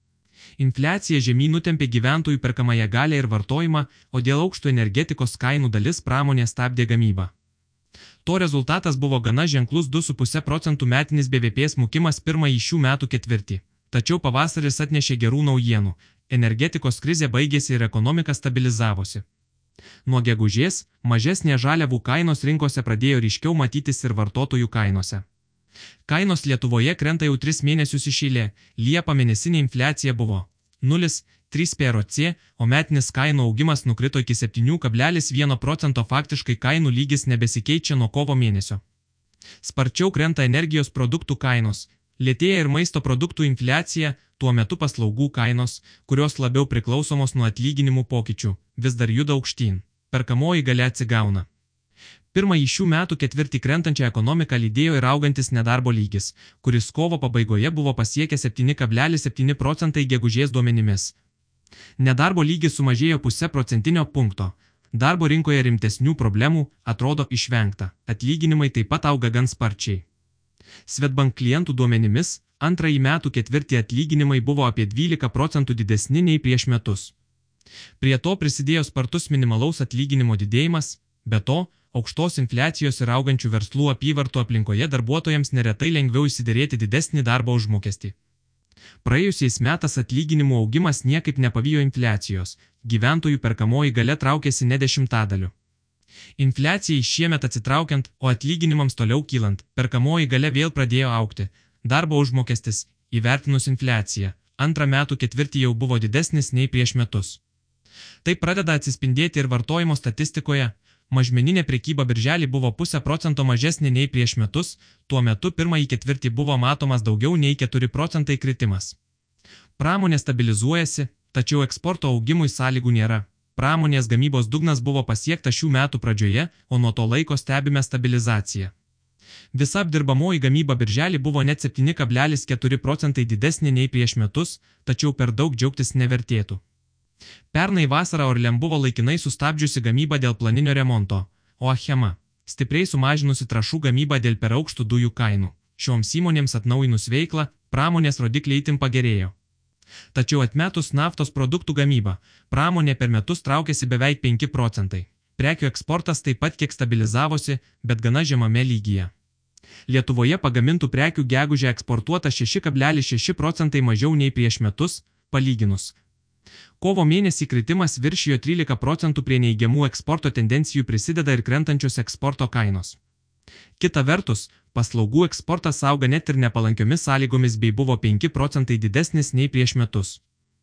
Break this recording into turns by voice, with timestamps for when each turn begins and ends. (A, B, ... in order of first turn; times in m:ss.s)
0:00.6-0:07.3 A
0:08.2-0:19.2 A
0:20.0-0:25.2 A
0:26.0-0:38.8 A
0:39.6-0:51.5 A
0:52.3-1:01.1 A
1:02.0-1:10.0 A
1:10.9-1:17.1 A
1:18.0-1:28.1 A
1:29.0-1:35.5 A
1:36.4-1:47.4 A
1:48.2-1:59.0 A
1:59.8-2:08.7 A
2:09.5-2:16.6 A
2:17.5-2:29.3 A
2:30.1-2:39.1 A
2:39.9-2:45.9 A
2:46.8-2:53.0 A
2:53.8-3:00.2 A